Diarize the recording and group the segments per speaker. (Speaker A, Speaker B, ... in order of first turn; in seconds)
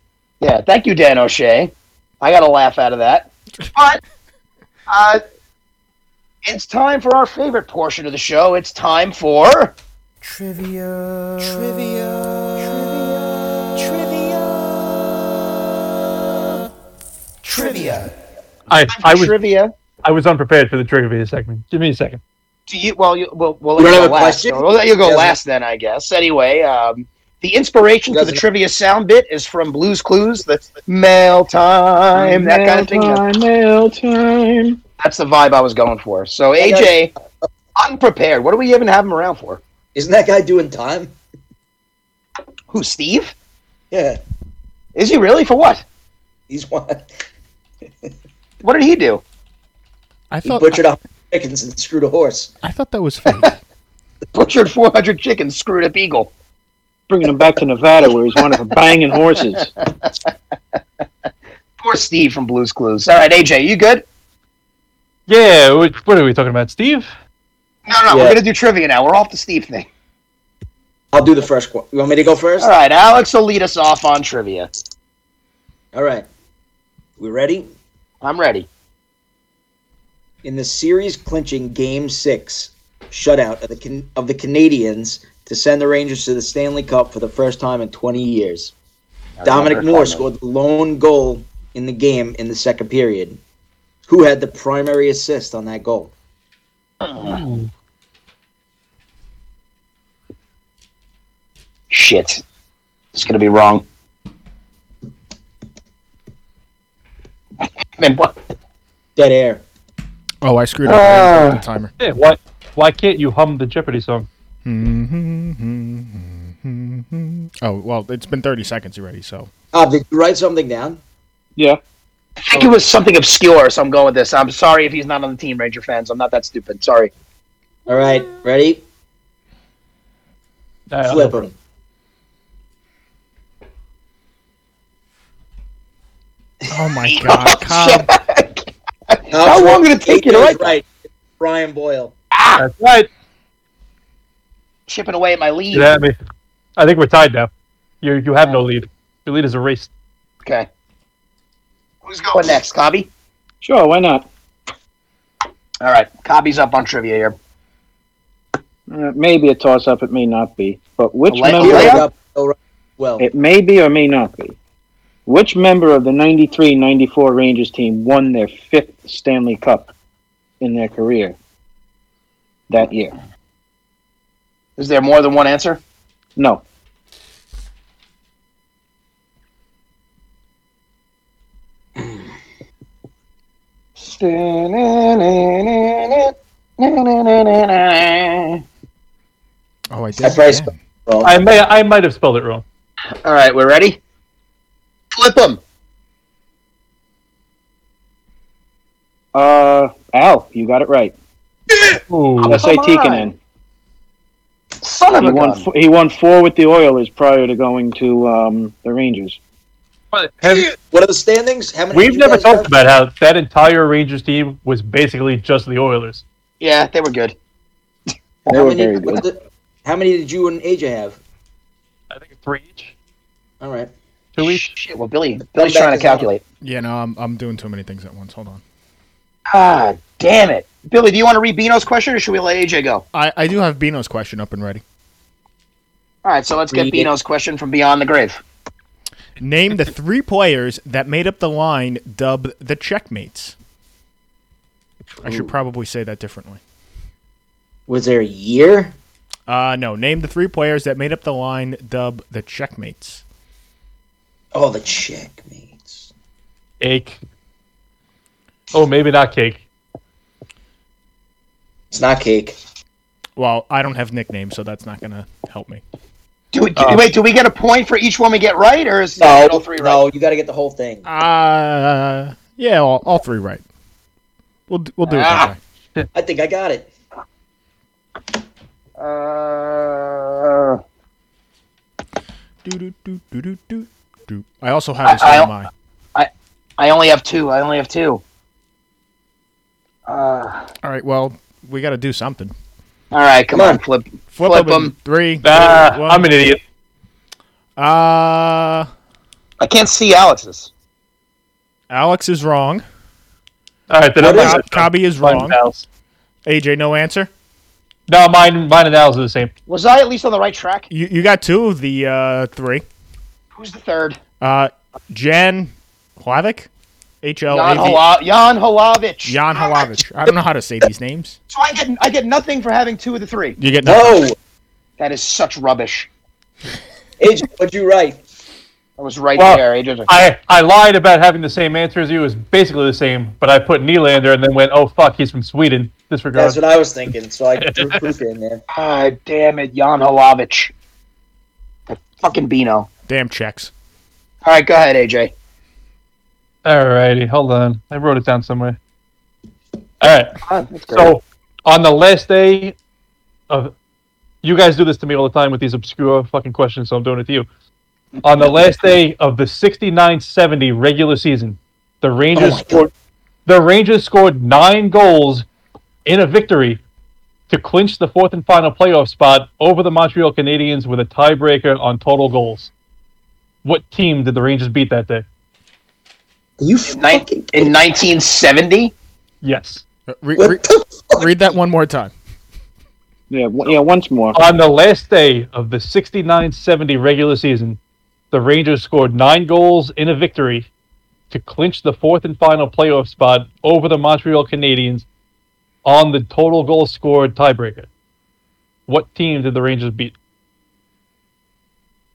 Speaker A: 0.4-4.0, 4.9-5.2, 6.5-9.7, 10.4-11.9, 12.5-13.2, 17.5-18.1, 18.9-19.7, 22.7-33.2, 35.0-37.1, 37.8-39.6, 42.7-43.3, 45.0-45.8, 48.6-49.2, 54.3-56.3, 59.6-60.1, 61.8-64.0, 67.9-69.9, 72.6-74.7, 78.2-78.7, 89.4-90.3, 97.0-97.5, 101.9-102.4, 103.1-103.8, 108.0-108.4, 110.8-111.6, 122.4-127.1, 137.0-140.7, 142.3-142.7, 144.9-146.0, 152.1-153.1, 155.8-157.4, 161.3-162.1, 174.8-175.8, 184.0-188.6, 193.2-194.0, 195.1-195.6, 202.4-203.3, 204.8-205.7, 216.6-217.3, 224.4-226.4, 229.5-233.0, 236.2-238.4, 266.5-270.0, 275.1-275.5, 279.0-280.8, 285.0-285.5, 286.1-288.2, 290.1-290.7, 293.1-294.9, 299.6-300.7, 309.7-310.9, 313.6-314.2, 317.5-320.0, 321.5-323.6, 325.0-326.1, 329.0-330.1, 338.7-340.7, 341.9-342.9, 344.4-345.3, 350.4-351.1, 376.9-378.9
Speaker B: 11.6-11.8, 17.5-18.0, 50.3-50.8, 52.6-53.6, 110.4-111.9, 114.7-119.5, 136.7-138.1, 189.9-190.7, 226.6-228.6, 233.1-234.8, 239.4-243.6, 245.2-246.6, 249.5-253.2, 263.4-265.8, 271.1-273.6, 274.7-275.6, 282.6-285.7, 290.8-292.5, 294.3-296.4, 297.8-298.9, 301.9-302.8, 304.2-305.6, 306.5-307.3, 310.9-312.9, 314.4-316.7, 317.2-318.0, 319.2-321.4, 323.6-324.3, 343.1-343.7, 380.1-380.6, 381.1-382.1
Speaker C: 18.7-19.4, 20.0-22.2, 65.3-67.1, 112.0-114.3, 130.9-131.4, 142.6-143.1, 145.7-146.2, 146.8-147.5, 148.0-149.9, 191.2-192.6, 202.1-202.6, 210.1-210.8, 211.9-216.2, 222.1-222.9, 224.4-224.8, 256.8-257.2, 258.7-259.6, 266.8-267.0, 295.4-296.6, 303.9-305.9, 308.1-309.5, 329.4-336.6, 337.6-338.0, 346.6-348.8, 350.0-352.8, 354.4-357.5, 358.2-362.9, 363.5-365.5, 366.1-366.8, 367.5-372.7, 373.6-375.2, 379.4-379.8, 384.3-387.8, 388.3-390.7, 391.3-395.1, 395.9-397.9, 398.9-400.1
Speaker D: 23.8-25.4, 28.1-28.4, 36.6-37.1, 40.0-41.1, 43.9-44.2, 46.5-47.1, 50.4-52.5, 68.1-68.4, 71.1-72.7, 75.9-76.3, 77.2-77.7, 80.4-88.7, 89.5-93.4, 94.1-96.1, 109.2-109.6, 119.7-121.0, 127.9-128.8, 131.0-131.5, 139.3-142.1, 161.6-163.3, 190.1-191.4, 210.4-212.7, 218.5-221.2, 223.6-223.9, 225.6-226.3, 236.7-237.1, 247.9-249.0, 254.5-256.1, 261.9-262.6, 269.2-271.1, 276.1-276.9, 293.5-293.8, 304.2-304.6, 323.8-324.4, 327.2-328.2, 336.4-338.6, 362.3-362.9, 376.6-377.7, 380.4-381.3
Speaker E: 32.1-34.8, 57.1-59.7, 153.6-154.3, 158.9-162.1, 163.2-164.6, 165.3-169.9, 170.6-171.3, 172.7-173.2, 176.4-176.6, 199.3-201.2, 202.4-203.4, 205.2-209.4, 218.5-219.2, 383.3-384.4